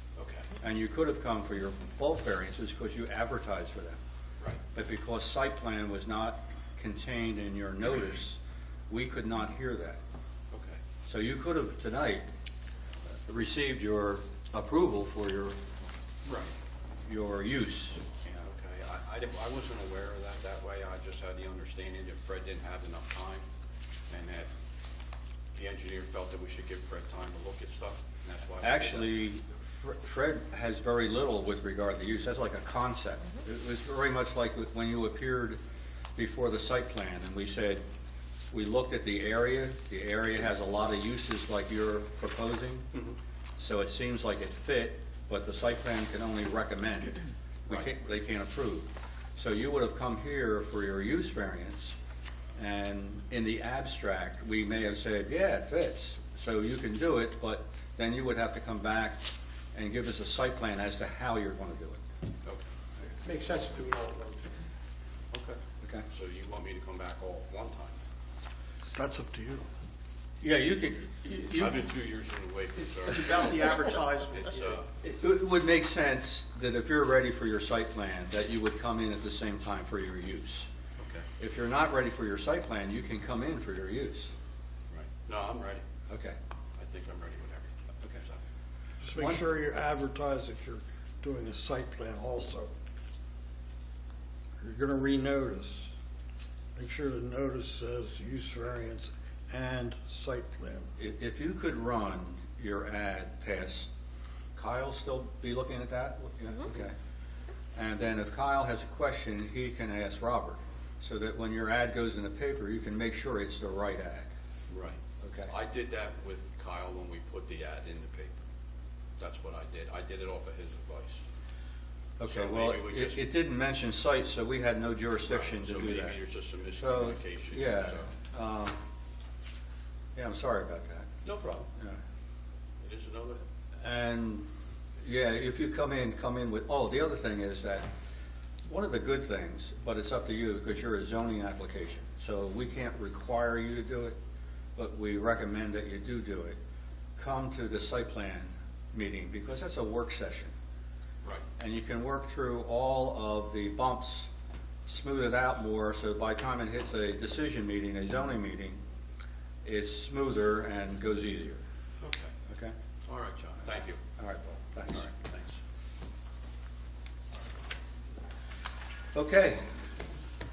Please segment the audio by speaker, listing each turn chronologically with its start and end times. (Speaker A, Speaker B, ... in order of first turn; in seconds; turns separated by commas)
Speaker A: 0.2-0.5, Speaker B: 0.6-4.0, Speaker B: 4.7-10.0, Speaker A: 10.5-10.8, Speaker B: 11.0-12.3, Speaker B: 13.2-15.6, Speaker A: 16.2-16.6, Speaker B: 17.0-18.4, Speaker A: 18.3-23.5, Speaker A: 24.1-24.5, Speaker A: 25.5-29.1, Speaker B: 28.6-35.6, Speaker B: 36.2-37.8, Speaker B: 38.5-42.9, Speaker B: 43.6-52.0, Speaker B: 52.6-62.0, Speaker C: 63.2-64.6, Speaker A: 65.3-65.6, Speaker B: 65.8-66.1, Speaker A: 66.1-68.0, Speaker D: 68.9-69.7, Speaker B: 70.4-71.8, Speaker A: 71.5-74.9, Speaker C: 73.0-74.8, Speaker B: 75.1-80.7, Speaker A: 81.0-81.2, Speaker B: 81.4-84.3, Speaker A: 84.9-85.8, Speaker B: 86.1-86.4, Speaker A: 86.8-88.4, Speaker D: 89.0-92.7, Speaker B: 89.1-89.4, Speaker D: 94.6-95.9, Speaker D: 96.8-100.9, Speaker B: 101.0-103.9, Speaker B: 104.6-106.9, Speaker B: 107.8-114.3, Speaker A: 114.7-118.3, Speaker B: 115.2-115.5, Speaker A: 119.2-121.2, Speaker B: 122.2-126.2, Speaker A: 122.2-123.2, Speaker A: 125.3-128.1, Speaker B: 126.8-128.8, Speaker B: 130.2-132.0, Speaker A: 131.2-131.6, Speaker A: 132.8-133.4, Speaker B: 133.8-134.5, Speaker B: 135.0-137.9, Speaker B: 138.7-144.2, Speaker B: 144.8-146.6, Speaker B: 147.2-150.5, Speaker B: 151.6-154.3, Speaker B: 154.9-158.8, Speaker B: 159.7-161.6, Speaker A: 162.0-162.3, Speaker B: 162.5-162.7, Speaker A: 163.1-164.0, Speaker B: 164.2-165.1, Speaker A: 164.9-165.6, Speaker B: 169.1-169.7